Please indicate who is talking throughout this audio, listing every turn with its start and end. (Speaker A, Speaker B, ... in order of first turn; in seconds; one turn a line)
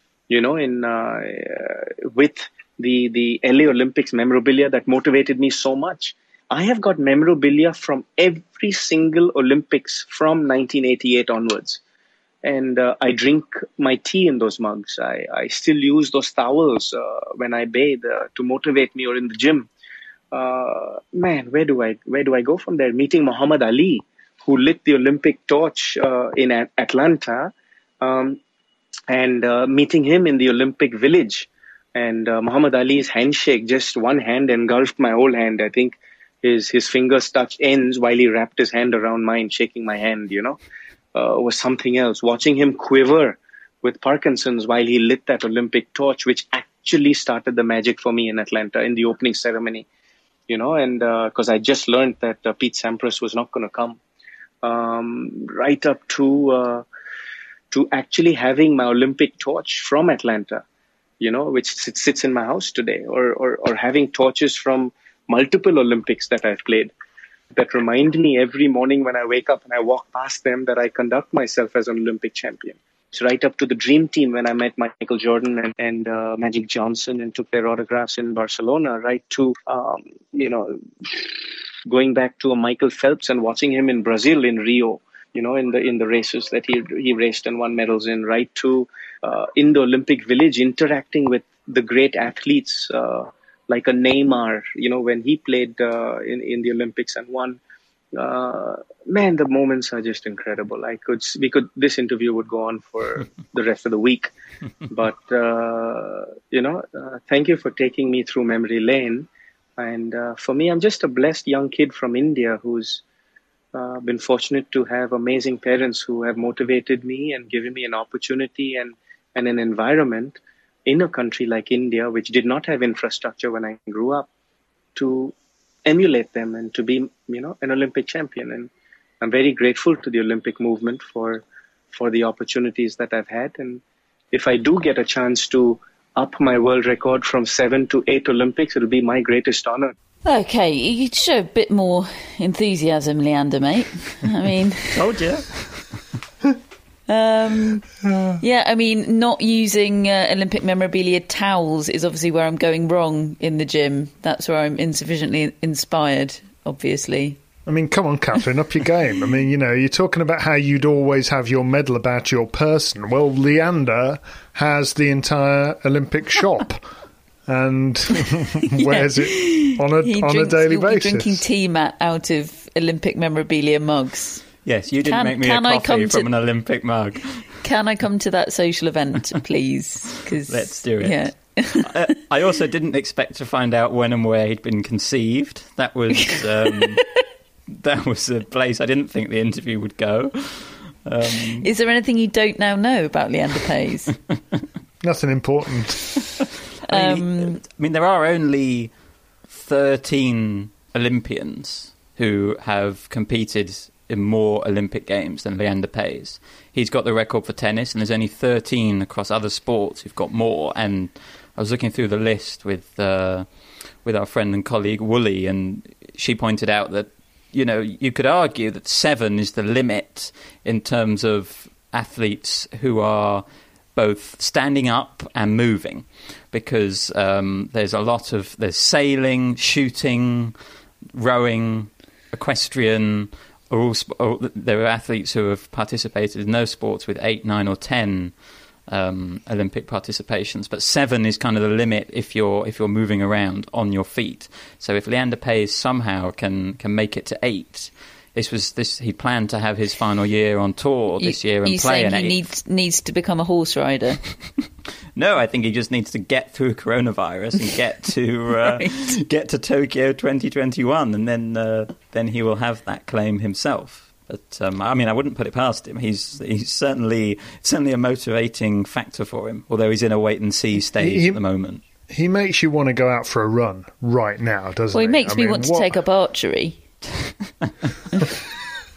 Speaker A: 0.3-11.8
Speaker A: 12.4-19.7
Speaker A: 20.3-28.4
Speaker A: 29.1-40.6
Speaker A: 41.1-49.9
Speaker A: 50.5-54.0
Speaker A: 54.6-56.8
Speaker A: 57.7-60.6
Speaker A: 61.2-66.9
Speaker A: 67.5-97.6
Speaker A: 98.1-104.3
Speaker A: 104.9-113.0
Speaker A: 113.7-124.3
Speaker A: 124.9-125.3
Speaker A: 125.8-128.7
Speaker A: 129.2-139.9
Speaker B: 140.2-144.9
Speaker C: 144.9-146.0
Speaker B: 147.1-147.9
Speaker B: 148.4-157.4
Speaker D: 157.7-166.9
Speaker D: 167.5-171.4
Speaker B: 168.8-174.5
Speaker C: 174.6-177.5
Speaker B: 175.1-176.3
Speaker B: 177.6-182.0
Speaker C: 180.4-187.1
Speaker C: 187.7-191.7
Speaker B: 191.6-194.1
Speaker D: 195.0-196.1
Speaker C: 196.9-198.9
Speaker B: 196.9-197.6
Speaker C: 199.5-213.5
Speaker C: 214.0-230.5
Speaker C: 231.1-238.3
Speaker C: 238.9-252.4
Speaker B: 251.2-254.2
Speaker C: 255.2-271.8
Speaker B: 258.7-259.0
Speaker D: 270.9-271.4
Speaker D: 272.1-276.0
Speaker B: 274.9-276.8